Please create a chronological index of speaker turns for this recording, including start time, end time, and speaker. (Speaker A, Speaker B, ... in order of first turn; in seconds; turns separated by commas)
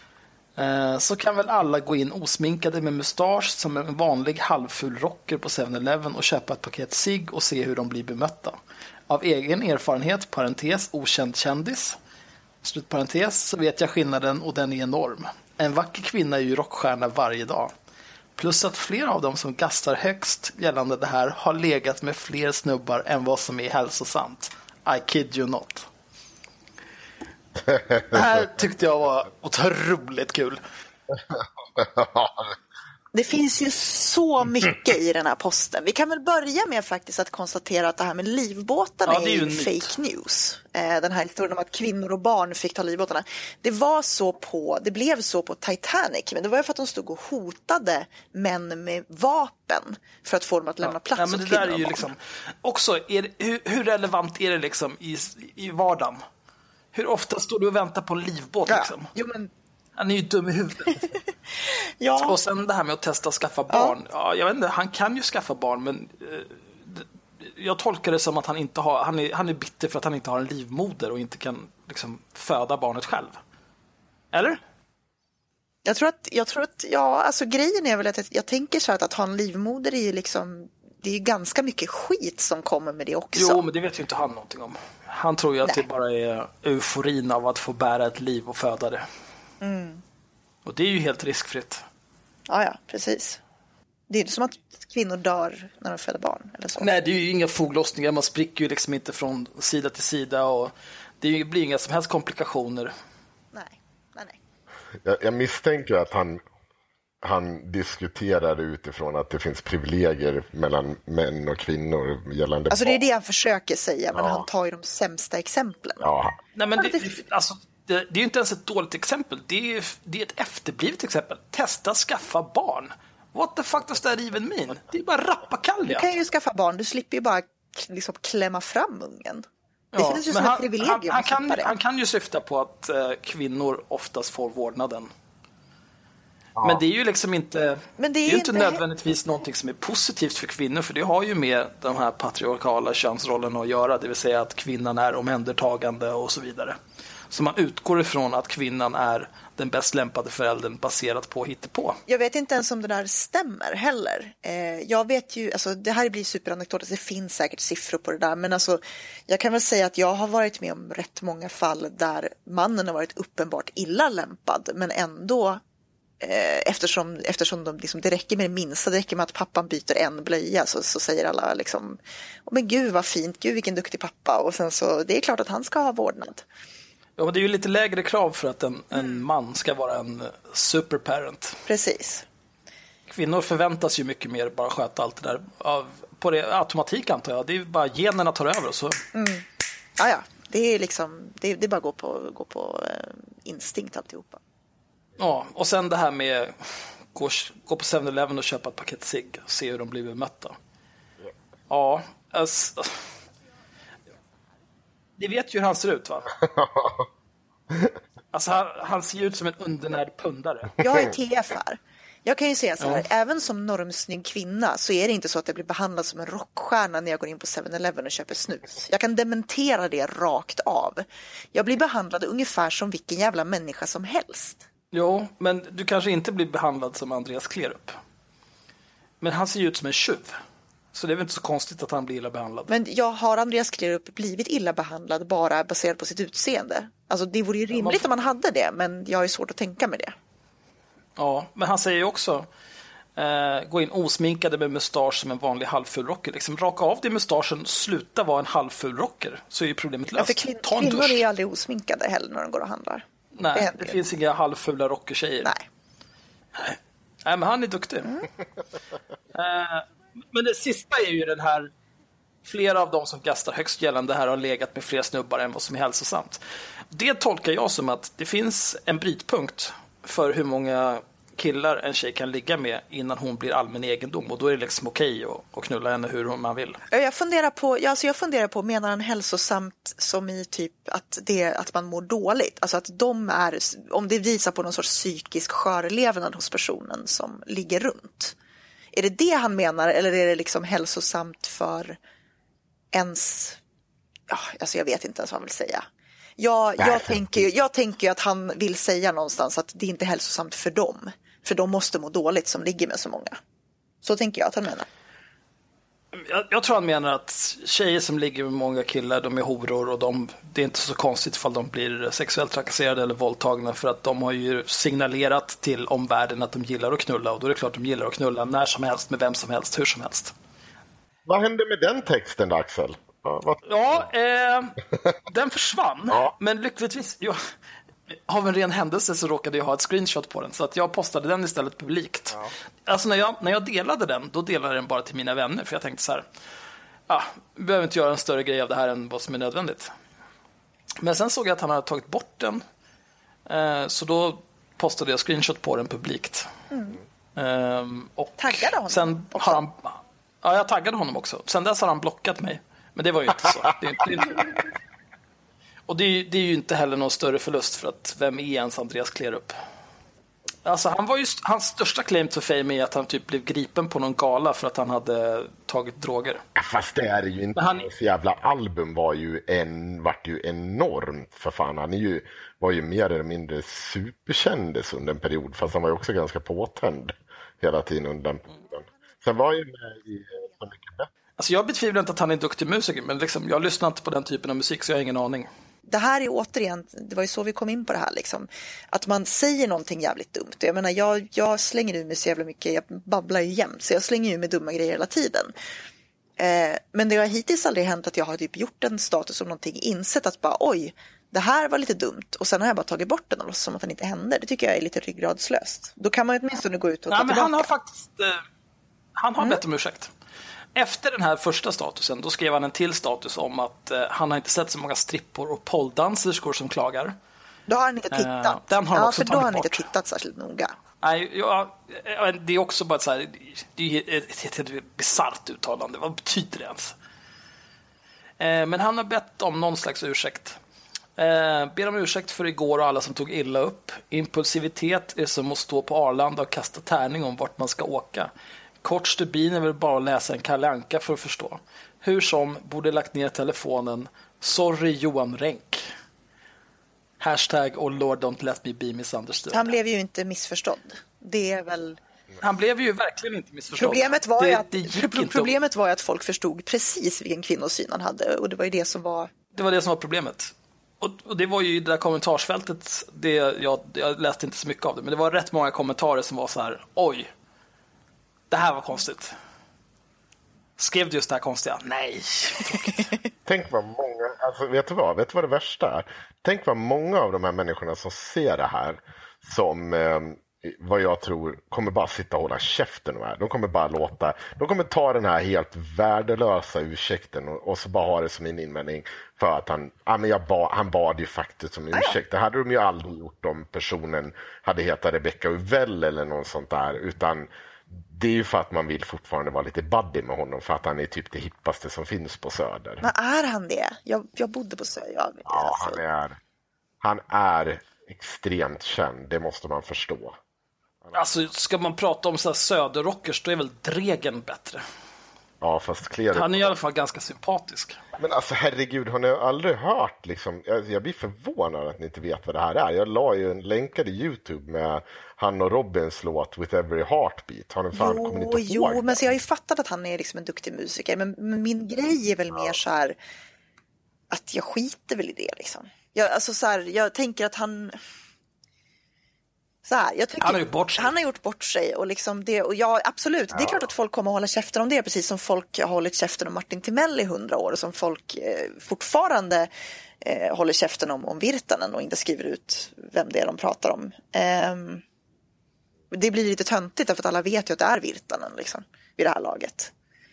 Speaker A: 0.6-8.6, Speaker A: 9.1-12.0, Speaker A: 12.6-17.7, Speaker A: 18.4-25.9, Speaker B: 27.7-28.2, Speaker A: 28.1-30.6, Speaker B: 31.3-32.5, Speaker C: 33.1-52.1, Speaker A: 39.0-39.9, Speaker A: 51.1-56.2, Speaker A: 56.9-59.1, Speaker C: 58.7-59.5, Speaker A: 60.0-61.1, Speaker C: 61.6-62.4, Speaker A: 62.2-73.4, Speaker C: 63.7-63.9, Speaker A: 74.3-74.6, Speaker C: 75.8-83.6, Speaker A: 83.3-89.0, Speaker C: 89.6-90.0, Speaker A: 90.6-91.8, Speaker C: 92.5-93.4, Speaker C: 94.1-96.9, Speaker A: 96.8-102.9, Speaker C: 103.5-104.4, Speaker B: 105.0-106.4, Speaker B: 107.2-113.0, Speaker C: 112.7-116.1, Speaker B: 114.1-114.5, Speaker B: 116.0-116.3, Speaker A: 116.5-126.1, Speaker C: 116.8-117.1, Speaker C: 125.8-131.7, Speaker A: 129.9-135.1, Speaker B: 136.6-136.8, Speaker A: 136.6-146.8, Speaker C: 138.0-138.8, Speaker A: 147.3-152.0, Speaker C: 152.1-165.6, Speaker C: 166.2-176.4, Speaker A: 177.2-181.6, Speaker C: 178.9-179.3, Speaker C: 181.7-182.2, Speaker A: 183.1-189.0, Speaker C: 189.1-189.4, Speaker C: 190.0-194.4, Speaker A: 195.2-200.6, Speaker A: 201.7-203.0, Speaker A: 205.2-206.3, Speaker B: 206.4-207.1, Speaker A: 208.3-210.8, Speaker C: 210.8-224.6, Speaker A: 224.9-228.0, Speaker A: 229.2-230.4, Speaker A: 230.9-232.7, Speaker C: 232.7-240.1, Speaker A: 237.7-238.1, Speaker A: 241.2-242.5, Speaker A: 243.2-251.2, Speaker C: 250.2-254.0, Speaker A: 253.3-255.5, Speaker A: 256.5-258.1, Speaker A: 259.3-261.7, Speaker A: 262.4-276.8, Speaker C: 276.9-288.3, Speaker C: 288.9-292.0, Speaker C: 292.9-293.6, Speaker C: 294.3-295.8, Speaker C: 296.4-303.4, Speaker B: 296.8-297.2, Speaker C: 304.0-304.9, Speaker A: 306.1-320.3, Speaker B: 321.2-324.0, Speaker A: 323.6-327.4, Speaker A: 328.1-336.2, Speaker A: 337.1-339.9, Speaker A: 341.0-342.6, Speaker A: 343.5-346.5, Speaker C: 346.7-347.0, Speaker A: 347.4-354.6, Speaker C: 348.4-349.6, Speaker A: 355.9-359.5, Speaker A: 360.6-366.4, Speaker B: 366.6-381.1, Speaker A: 367.6-367.9, Speaker A: 381.4-385.5, Speaker C: 385.9-395.5, Speaker C: 396.4-407.7, Speaker A: 407.1-408.4, Speaker A: 409.2-410.1, Speaker A: 410.7-417.1, Speaker C: 417.7-420.8, Speaker A: 418.1-419.8, Speaker A: 421.0-426.9, Speaker A: 428.4-430.6, Speaker A: 431.2-438.3, Speaker A: 438.8-445.9, Speaker A: 447.2-449.8, Speaker C: 449.5-452.0, Speaker A: 452.4-455.5, Speaker C: 453.7-459.3, Speaker A: 459.5-467.3, Speaker A: 468.5-469.3, Speaker A: 470.8-473.1, Speaker B: 473.4-497.5, Speaker B: 498.0-503.1, Speaker C: 503.0-506.0, Speaker B: 505.5-506.4, Speaker B: 507.0-510.4, Speaker A: 511.1-514.8, Speaker B: 515.6-516.7, Speaker A: 516.3-518.0, Speaker B: 518.2-529.3, Speaker C: 527.9-533.2, Speaker C: 534.3-538.0, Speaker C: 539.8-549.7, Speaker A: 540.4-541.1, Speaker B: 543.5-543.9, Speaker C: 550.2-555.0, Speaker C: 556.1-559.9